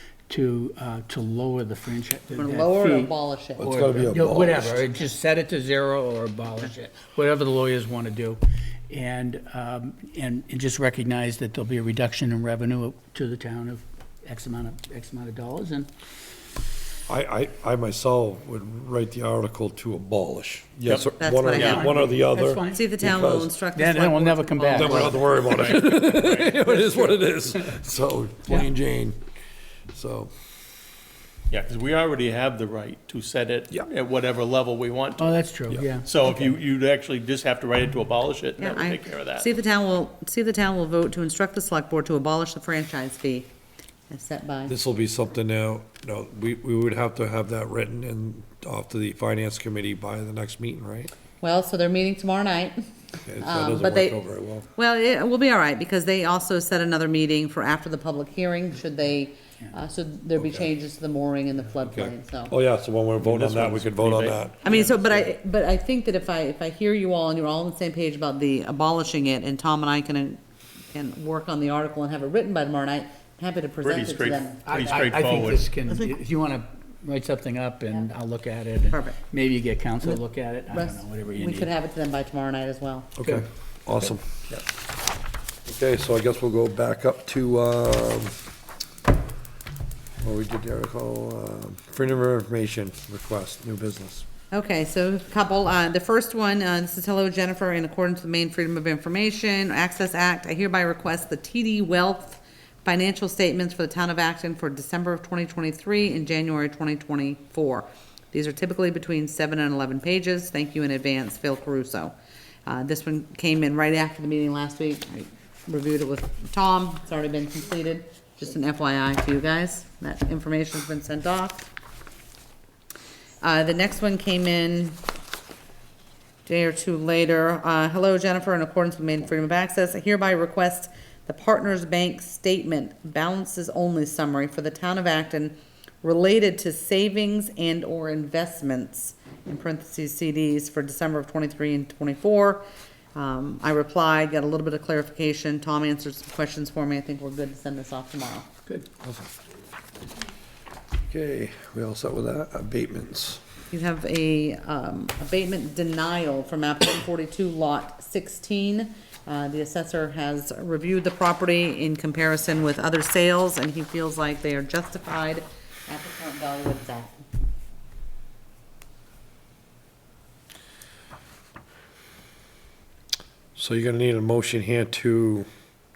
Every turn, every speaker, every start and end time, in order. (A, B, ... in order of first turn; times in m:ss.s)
0:00.3-0:15.9 A
0:02.3-0:03.7 B
0:03.6-0:04.8 C
0:17.1-0:23.5 C
0:20.9-0:21.9 D
0:21.0-0:22.0 B
0:21.6-0:23.1 A
0:22.6-0:25.4 B
0:23.7-0:27.7 A
0:24.7-0:29.2 C
0:25.5-0:26.1 D
0:29.9-0:30.3 C
0:31.5-0:35.4 D
0:35.2-0:36.5 A
0:36.0-0:39.5 D
0:38.6-0:43.5 B
0:44.1-0:44.7 B
0:44.7-0:51.1 C
0:51.4-0:52.8 B
0:53.2-0:54.7 C
0:53.4-0:54.2 B
0:54.8-1:02.5 B
1:00.4-1:00.7 C
1:01.9-1:04.9 C
1:03.2-1:05.3 D
1:04.6-1:10.4 B
1:10.9-1:15.1 B
1:13.8-1:16.1 D
1:14.6-1:21.7 A
1:18.9-1:19.2 B
1:20.7-1:23.1 B
1:23.2-1:24.2 C
1:25.6-1:28.4 C
1:30.2-1:34.2 C
1:34.5-1:52.1 B
1:52.6-2:01.7 B
2:03.4-2:05.0 B
2:06.4-2:22.6 B
2:23.1-2:28.5 B
2:29.0-2:29.3 C
2:31.1-2:33.4 C
2:33.7-2:47.2 B
2:53.6-2:55.5 C